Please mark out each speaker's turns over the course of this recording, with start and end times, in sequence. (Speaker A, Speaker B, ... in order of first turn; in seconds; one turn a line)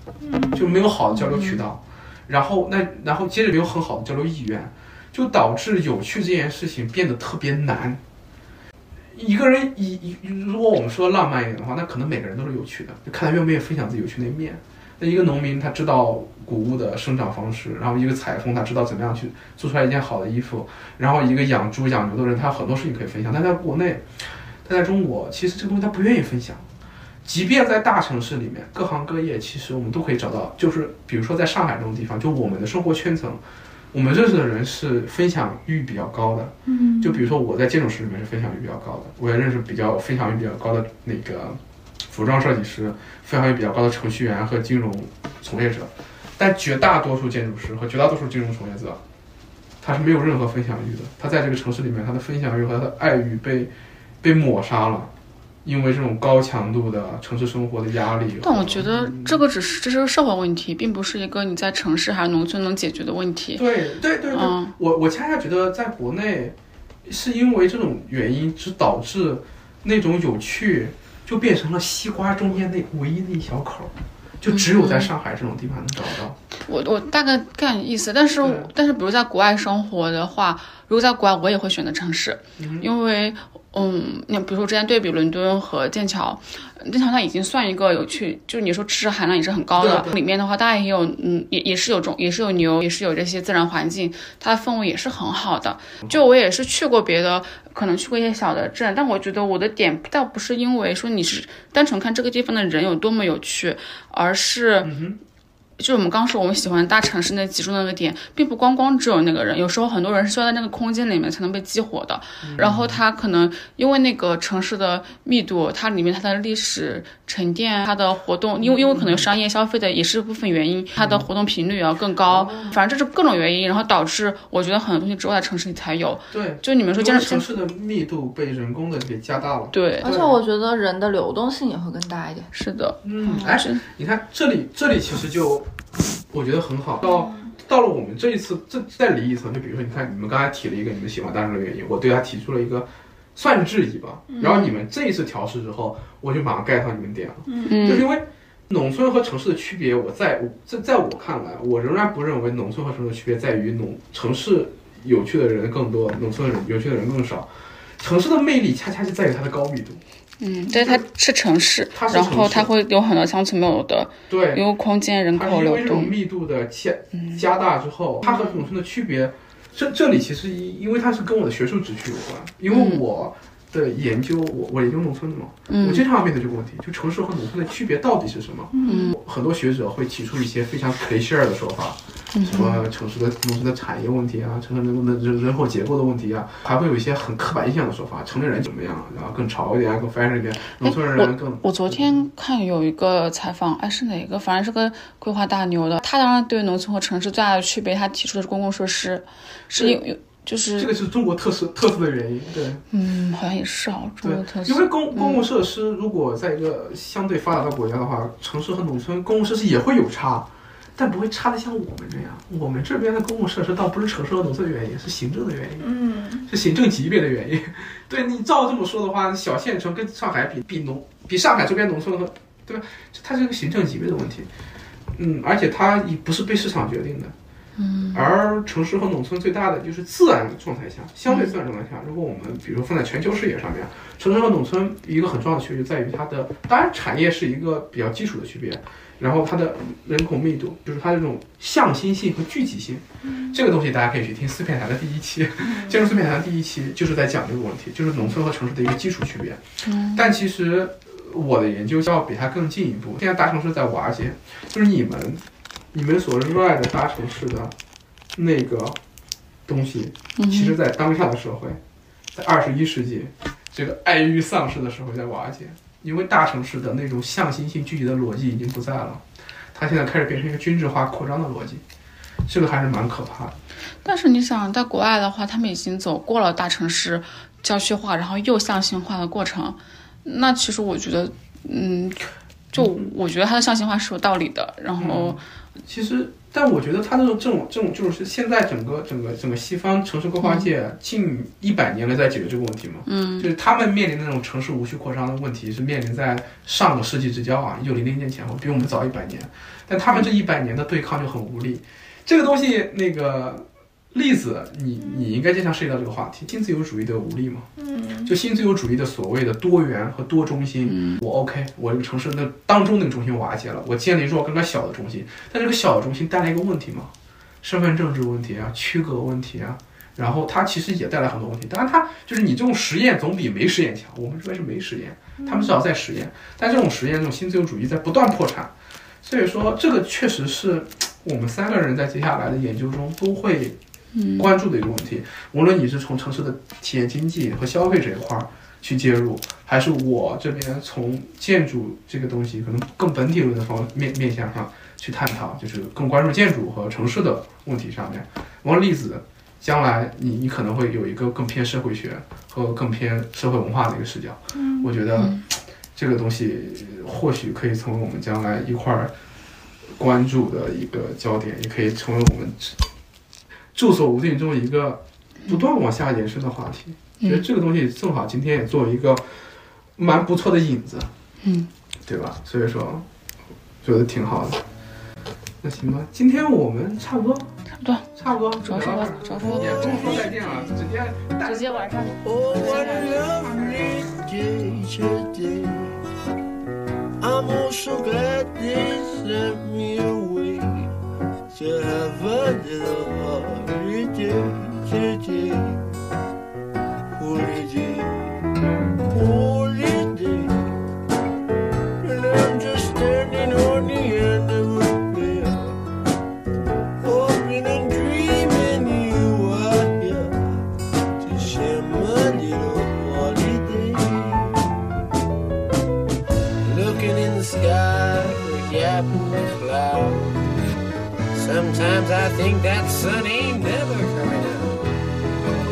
Speaker A: 0.2-0.7
Speaker B: 0.5-8.0
Speaker C: 1.2-1.6
Speaker B: 9.1-24.0
Speaker B: 24.6-26.6
Speaker B: 27.2-33.4
Speaker B: 33.9-49.0
Speaker A: 36.7-37.3
Speaker B: 49.8-55.1
Speaker B: 55.6-59.4
Speaker C: 58.4-63.7
Speaker B: 63.5-76.4
Speaker C: 64.3-64.7
Speaker C: 74.5-75.1
Speaker C: 76.6-105.0
Speaker B: 78.4-78.7
Speaker B: 82.6-82.9
Speaker B: 89.8-90.1
Speaker B: 104.8-105.2
Speaker C: 105.8-127.5
Speaker B: 112.4-113.0
Speaker B: 118.6-119.3
Speaker B: 121.0-121.3
Speaker B: 122.2-122.8
Speaker B: 126.3-130.4
Speaker C: 129.7-130.1
Speaker A: 130.0-132.5
Speaker C: 132.5-133.8
Speaker B: 133.0-135.7
Speaker B: 136.3-157.5
Speaker A: 137.2-137.5
Speaker A: 147.5-147.7
Speaker C: 147.7-148.1
Speaker B: 158.0-160.0
Speaker C: 160.4-166.2
Speaker B: 160.7-161.0
Speaker B: 161.9-162.7
Speaker B: 164.3-164.6
Speaker B: 165.3-192.2
Speaker C: 167.2-167.4
Speaker C: 168.2-168.6
Speaker C: 172.7-173.0
Speaker C: 175.7-176.0
Speaker A: 178.7-179.1
Speaker C: 178.8-179.2
Speaker C: 182.3-182.8
Speaker C: 190.8-200.9
Speaker B: 200.8-202.8
Speaker C: 202.9-205.4
Speaker B: 204.2-215.9
Speaker A: 215.8-216.5
Speaker B: 216.4-224.5
Speaker B: 225.1-227.3
Speaker C: 227.8-228.3
Speaker B: 228.1-249.6
Speaker C: 231.3-231.5
Speaker A: 243.2-243.5
Speaker A: 245.6-246.0
Speaker C: 249.8-250.2
Speaker B: 250.1-255.4
Speaker B: 255.9-257.7
Speaker B: 258.3-259.0
Speaker B: 259.6-261.8
Speaker C: 260.4-260.8
Speaker B: 262.3-271.8
Speaker B: 272.4-273.5
Speaker C: 274.0-285.4
Speaker B: 282.7-283.0
Speaker B: 285.0-307.7
Speaker C: 290.4-290.7
Speaker C: 293.1-293.5
Speaker A: 307.8-308.3
Speaker B: 308.2-317.1
Speaker C: 310.8-311.2
Speaker B: 317.6-333.8
Speaker C: 334.1-334.5
Speaker B: 334.4-355.4
Speaker A: 354.5-354.9
Speaker C: 355.1-355.4
Speaker B: 355.9-359.1
Speaker B: 359.9-362.8
Speaker B: 363.7-371.1
Speaker C: 371.4-371.7
Speaker B: 372.0-373.0
Speaker B: 373.8-374.6
Speaker B: 375.6-377.5
Speaker C: 377.8-378.1
Speaker B: 378.1-381.9
Speaker C: 378.6-380.7
Speaker C: 381.4-383.5
Speaker D: 382.2-386.0
Speaker D: 387.2-390.9
Speaker D: 391.5-395.9
Speaker D: 397.1-398.5
Speaker D: 399.1-400.8
Speaker D: 402.0-405.8
Speaker D: 407.0-410.6
Speaker D: 411.2-414.7
Speaker D: 416.6-420.4
Speaker D: 421.3-424.9